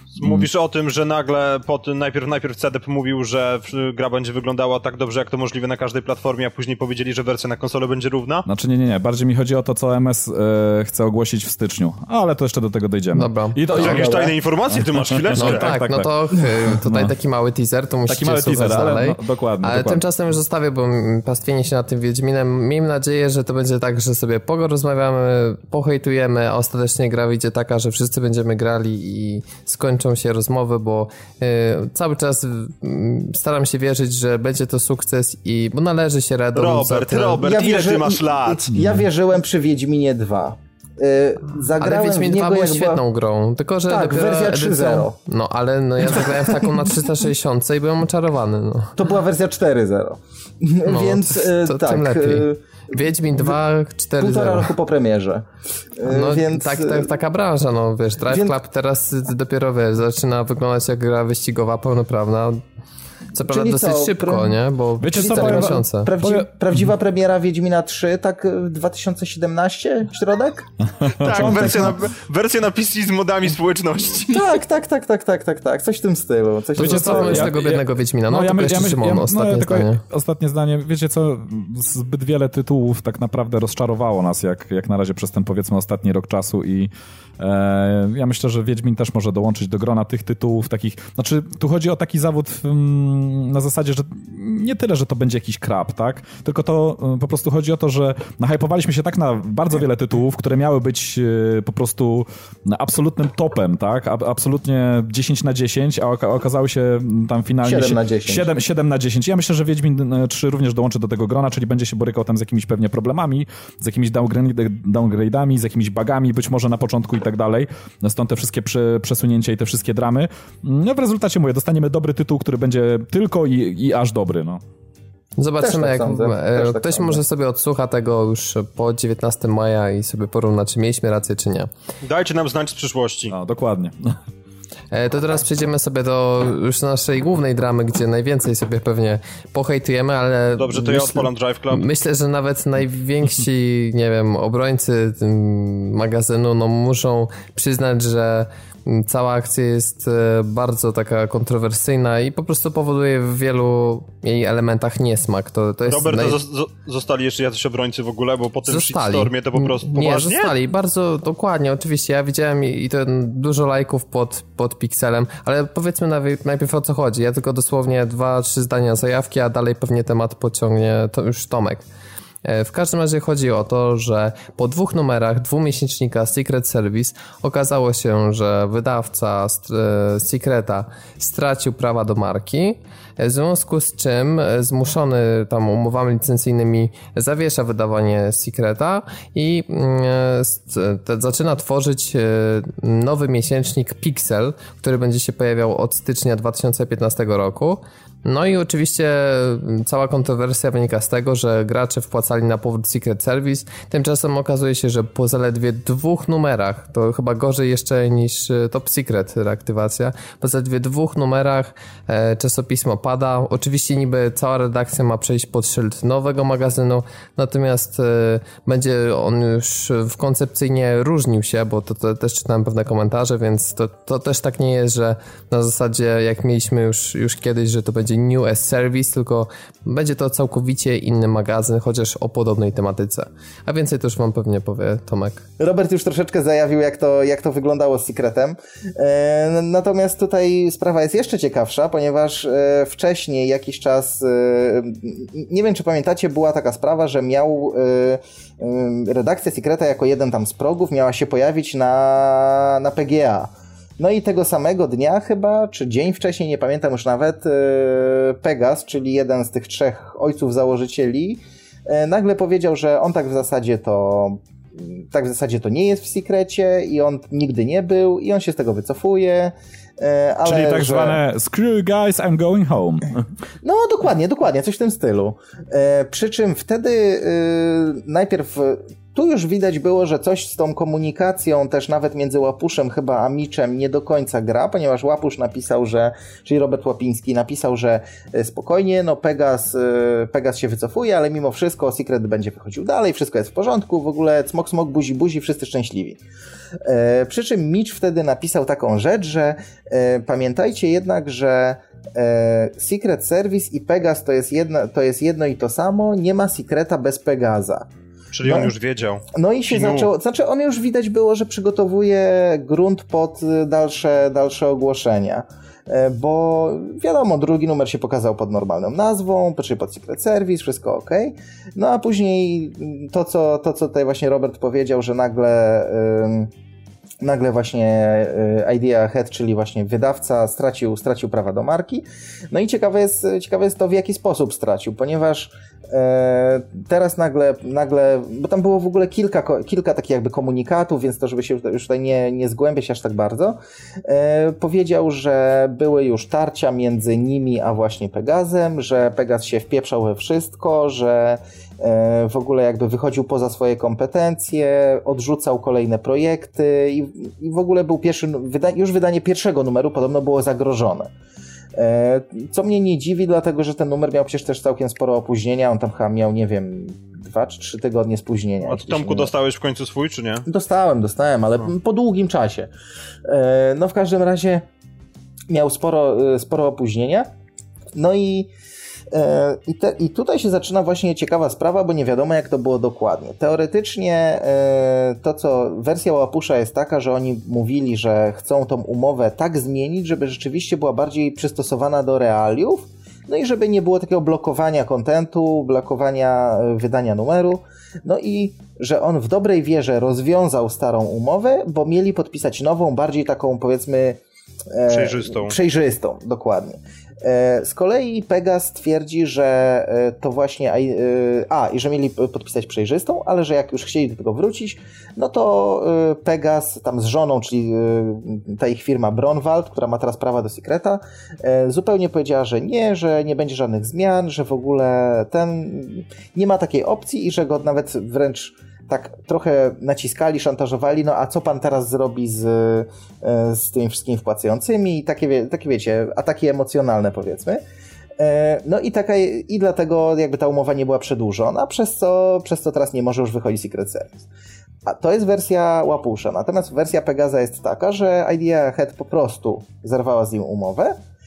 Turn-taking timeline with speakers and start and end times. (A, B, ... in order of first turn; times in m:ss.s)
0:00.2-0:08.4 A
0:00.2-0:00.5 B
0:08.4-0:17.1 B
0:13.1-0:14.1 C
0:13.7-0:15.7 A
0:15.4-0:37.4 C
0:18.1-0:20.0 B
0:36.5-0:38.7 A
0:37.4-0:43.0 D
0:38.7-0:39.0 B
0:41.8-0:48.9 C
0:43.9-0:45.1 D
0:49.0-0:52.6 D
0:50.8-0:54.7 C
0:54.2-0:57.1 D
0:56.0-1:02.6 C
0:58.3-0:58.6 D
1:03.3-1:06.1 C
1:03.4-1:04.6 D
1:05.0-1:06.5 B
1:05.1-1:10.7 D
1:11.0-1:12.0 B
1:11.2-1:14.6 A
1:14.3-1:17.5 D
1:16.8-1:20.0 C
1:16.8-2:04.6 B
1:47.6-1:48.4 D
2:05.4-2:11.7 C
2:05.6-2:07.2 D
2:12.0-2:13.3 A
2:13.3-2:14.2 B
2:14.9-2:36.4 C
2:20.6-2:21.9 A
2:35.9-2:40.5 A
2:38.7-2:51.8 C
2:52.4-3:55.4 C
3:55.6-4:31.2 D
4:30.4-4:33.3 B
4:33.6-4:56.2 D
4:56.8-5:07.9 D
5:08.3-5:10.1 A
5:08.4-5:08.7 D
5:09.3-5:26.5 D
5:27.2-6:01.1 D
6:01.8-6:09.3 D
6:08.6-6:10.4 A
6:10.4-6:12.7 D
6:13.2-6:14.6 D
6:15.5-6:17.3 D
6:17.9-6:18.5 D
6:19.1-6:44.2 D
6:44.7-7:17.6 D
6:44.9-6:45.6 A
7:18.2-7:24.2 D
7:24.8-7:31.0 D